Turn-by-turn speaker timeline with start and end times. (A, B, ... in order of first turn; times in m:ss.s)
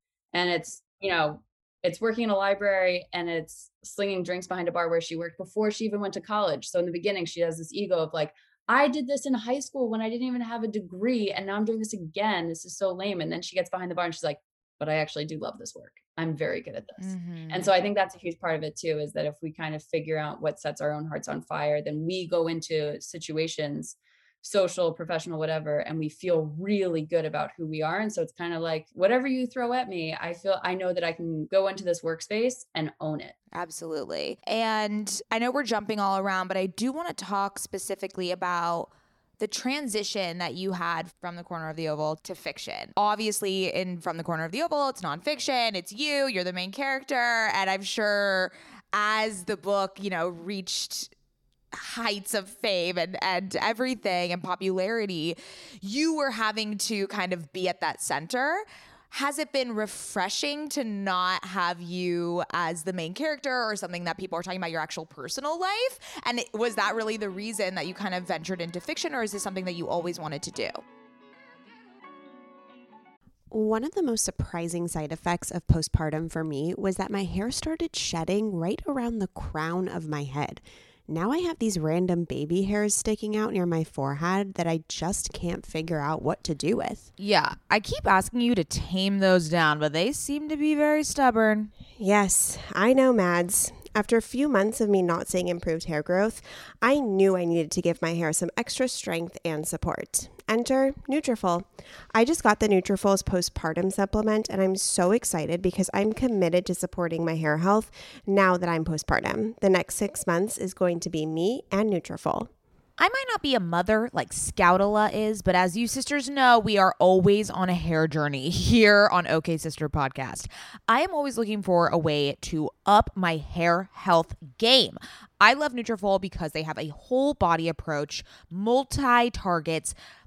0:00.3-0:33.4 A
0:17.0-0:17.7 B
0:33.5-0:51.1 B
0:51.7-1:10.8 B
1:13.5-1:27.1 C
1:27.2-1:31.7 B
1:32.0-1:52.5 C
1:53.0-2:09.9 B